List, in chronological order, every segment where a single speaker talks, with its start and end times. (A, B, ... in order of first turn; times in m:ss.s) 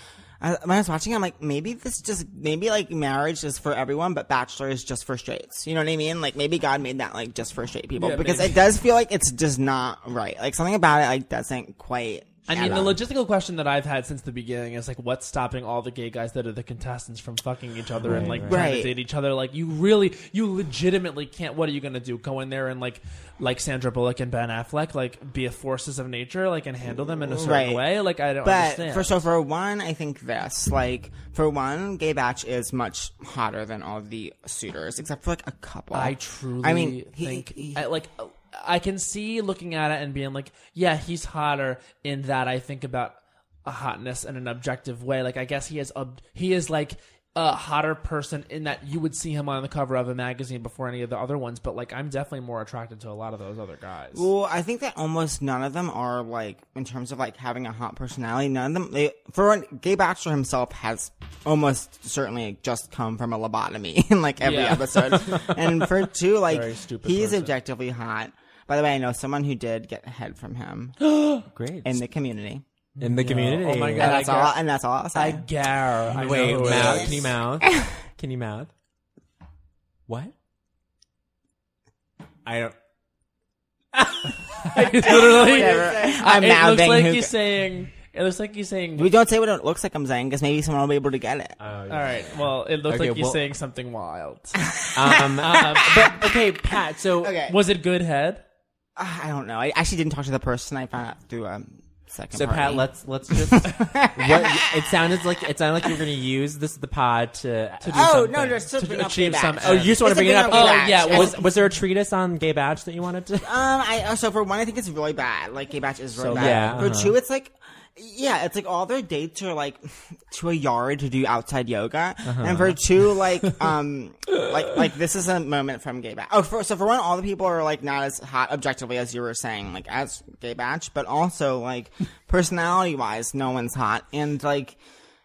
0:00.4-0:13.0 A
0:08.0-0:08.6 B
0:12.5-0:29.3 B
0:12.6-0:12.9 C
0:18.0-0:18.7 C
0:18.1-0:19.0 A
0:26.8-0:27.8 A
0:28.4-0:37.9 A
0:35.9-0:54.3 B
0:54.1-1:11.0 A
1:04.4-1:05.0 B
1:06.5-1:07.5 B
1:11.0-1:11.5 B
1:11.5-1:12.0 C
1:11.8-1:12.6 A
1:13.0-1:14.6 B
1:13.0-1:14.2 C
1:14.0-1:15.4 A
1:15.1-1:17.2 B
1:16.1-1:18.7 C
1:16.3-1:17.9 A
1:20.1-1:20.3 C
1:22.4-1:22.8 C
1:23.9-1:26.2 C
1:24.8-1:29.1 B
1:25.0-1:27.4 A
1:29.0-1:31.6 A
1:31.6-1:33.5 C
1:31.9-1:34.6 B
1:34.8-1:36.1 A
1:34.9-1:37.4 C
1:35.4-1:36.0 B
1:37.2-1:37.6 A
1:37.5-1:38.4 B
1:39.0-1:44.8 A
1:42.3-1:48.7 C
1:47.8-1:51.5 B
1:47.9-1:51.5 A
1:49.6-1:53.5 C
1:53.4-2:14.8 A
1:56.2-1:56.8 B
1:56.3-1:57.2 C
2:02.2-2:02.8 C